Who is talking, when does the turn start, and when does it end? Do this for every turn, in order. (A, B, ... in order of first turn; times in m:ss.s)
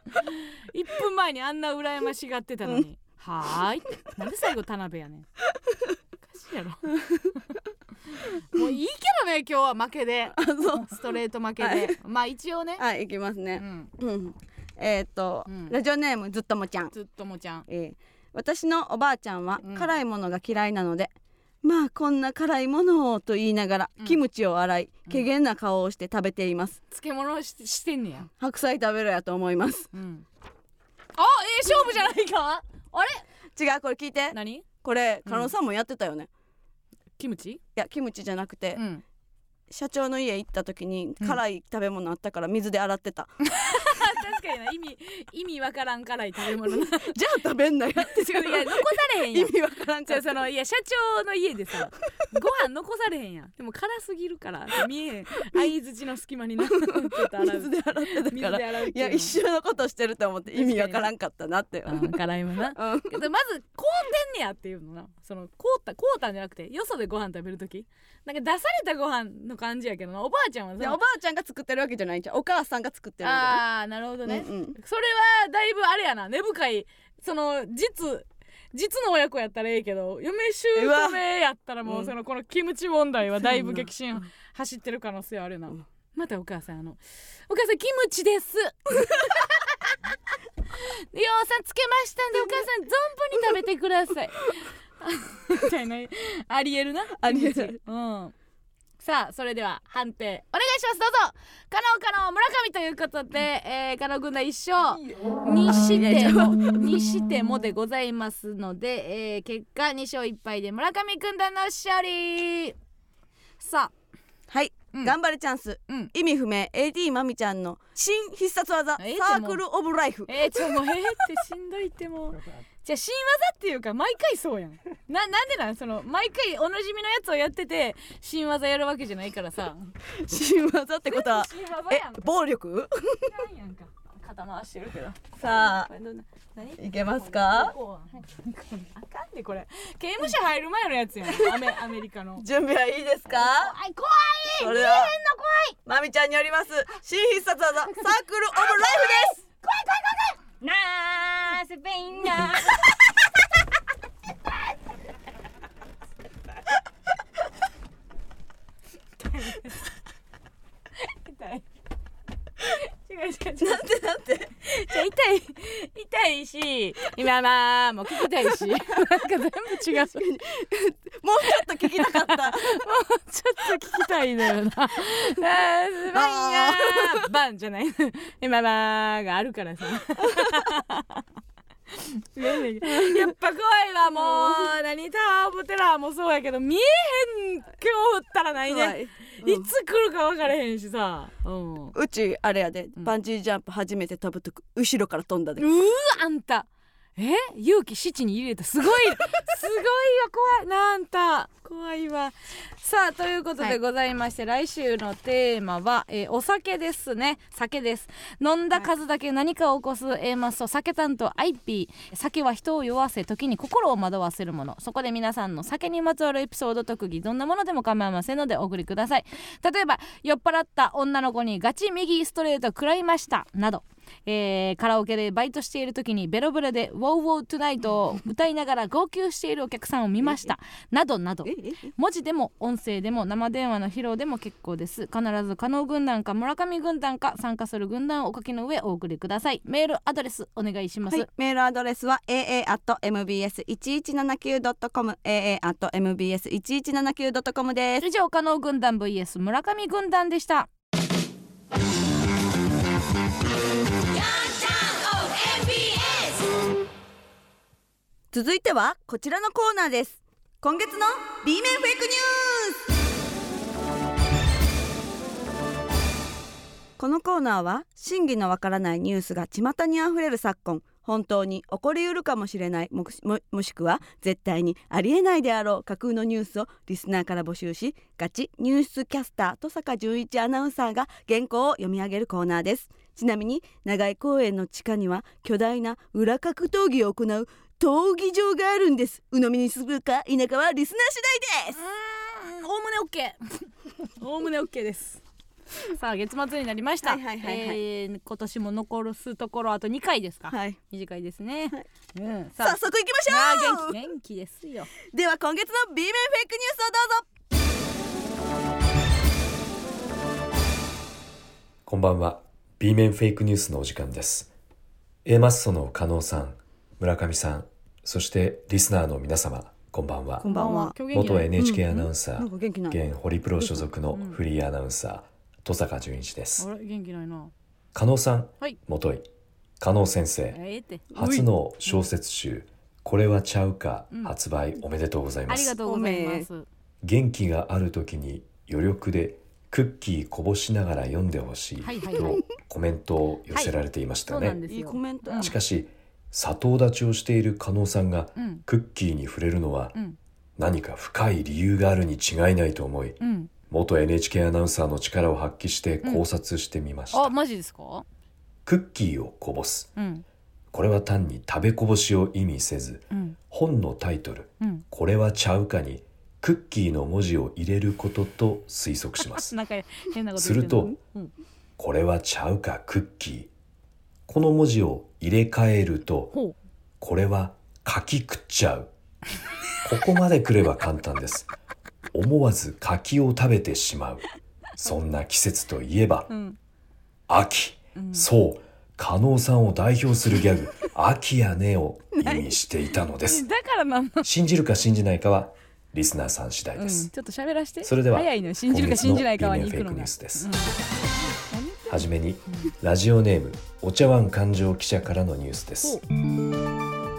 0:00.2-0:05.2 A
0:06.2-0:06.9 A
0:06.9-0:07.3 B
0:08.2-0:12.8 A
0:10.3-0:11.0 B
0:11.6-0:12.0 B
0:12.8-0:16.9 B
0:13.6-0:13.9 A
0:15.5-0:15.8 A
0:16.9-0:17.6 A
0:17.7-0:26.8 B
0:19.6-0:19.9 A
0:26.9-0:28.3 A
0:28.4-0:29.9 B
0:29.9-0:30.2 A
0:31.2-0:33.2 A
0:33.6-0:36.3 B
0:34.3-0:34.6 A
0:35.2-0:35.5 A
0:37.2-0:37.6 A
0:37.8-0:38.8 B
0:38.7-0:39.0 A
0:39.7-0:43.3 B
0:43.4-0:47.2 A
0:46.9-0:50.4 B
0:48.0-0:59.4 A
0:56.8-1:02.2 B
1:00.5-1:01.1 A
1:01.8-1:11.0 A
1:02.7-1:03.1 B
1:10.8-1:13.6 B
1:13.2-1:30.1 A
1:14.2-1:14.8 B
1:20.7-1:21.2 B
1:21.8-1:22.1 B
1:23.4-1:23.9 B
1:30.7-1:38.3 A
1:37.2-1:37.8 B
1:39.0-1:52.7 A
1:45.7-1:47.0 B
1:53.6-1:53.9 A
1:54.5-2:00.6 B
1:59.0-1:59.6 A
2:00.3-2:09.9 A
2:10.1-2:13.3 B
2:11.1-2:12.3 A
2:13.2-2:22.4 A
2:15.4-2:15.9 B
2:16.8-2:17.7 B
2:21.3-2:21.6 B
2:22.4-2:23.7 B
2:23.3-2:25.8 A
2:24.6-2:25.1 B
2:25.8-2:29.4 B
2:28.7-2:32.7 A
2:30.6-2:32.7 B
2:39.2-2:39.8 A
2:41.0-2:41.6 A
2:43.0-2:43.9 A
2:43.6-2:44.5 B
2:44.6-2:50.2 A
2:49.9-2:52.8 B
2:51.5-3:01.2 A
2:56.1-2:57.2 B
3:00.2-3:00.6 B
3:01.9-3:11.9 A
3:02.8-3:03.3 B
3:04.1-3:04.7 B
3:08.6-3:09.7 B
3:11.9-3:15.6 B
3:15.6-4:01.3 A
3:50.2-3:50.5 B
3:51.4-3:51.9 B
4:01.1-4:08.0 B
4:08.0-4:10.7 A
4:15.4-4:16.1 B
4:18.3-4:22.8 B
4:27.0-4:51.8 B
4:51.7-4:55.2 A
4:55.8-5:04.9 A
4:57.0-4:57.8 B
5:00.5-5:00.8 B
5:02.6-5:04.0 B
5:05.1-5:07.3 B
5:11.8-5:14.5 C
5:15.2-5:20.5 C
5:20.4-5:21.0 B
5:20.4-5:22.1 A
5:21.1-5:26.7 C
5:21.6-5:23.0 B
5:24.1-5:24.4 A
5:26.6-5:27.5 A
5:27.9-5:29.3 C
5:29.8-5:30.6 C
5:30.5-5:31.0 A
5:31.1-5:35.8 C
5:31.1-5:31.5 B
5:35.5-5:36.6 A
5:35.8-5:36.5 B
5:37.0-5:44.6 C
5:41.8-5:42.4 A
5:44.3-5:45.5 A
5:44.7-5:45.6 B
5:45.4-5:50.0 C
5:48.4-5:48.6 A
5:50.6-5:57.3 C
5:53.2-5:53.5 A
5:57.1-5:58.0 A
5:58.6-5:59.9 C
6:00.0-6:00.2 A
6:00.7-6:09.5 C
6:03.1-6:03.4 A
6:09.3-6:11.3 A
6:10.4-6:11.0 C
6:11.8-6:13.5 C
6:14.3-6:16.3 C
6:16.3-6:16.6 A
6:17.0-6:18.9 C
6:19.8-6:21.5 C
6:22.1-6:26.3 C
6:26.3-6:26.6 A
6:27.3-6:33.4 C
6:27.9-6:28.3 A
6:32.1-6:32.5 B
6:33.2-6:34.3 A
6:34.2-6:37.1 C
6:36.7-6:40.8 A
6:37.8-6:40.5 C
6:41.5-6:42.7 A
6:41.9-6:46.0 C